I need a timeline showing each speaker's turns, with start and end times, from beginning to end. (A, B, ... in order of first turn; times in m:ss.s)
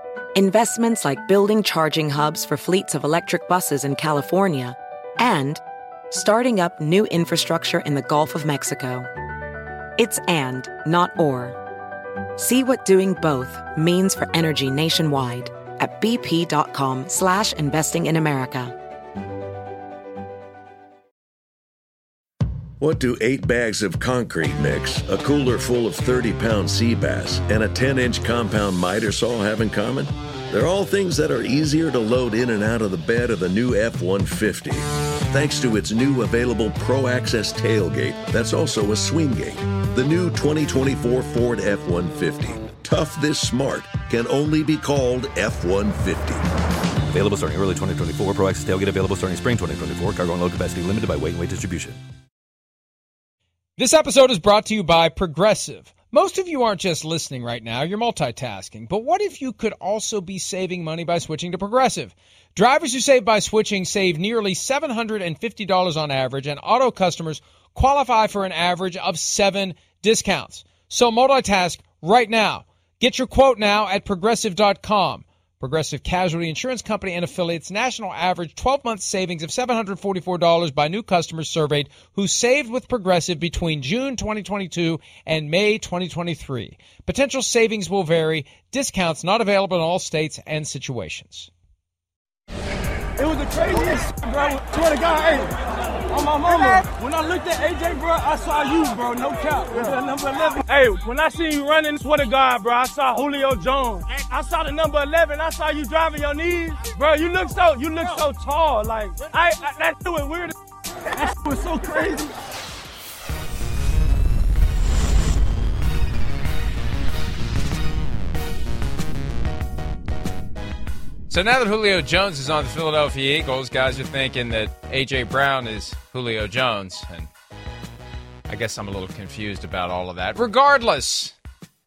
0:00.3-0:09.1 A
0:10.0-0:11.6 A
0:12.4-0:18.8 A
0:22.8-0:46.4 B
0:47.1-0:52.0 C
0:53.8-1:31.5 D
1:33.2-1:35.5 E
1:36.1-1:50.5 E
1:51.1-1:52.3 E
2:01.3-2:07.3 D
2:08.5-2:11.3 D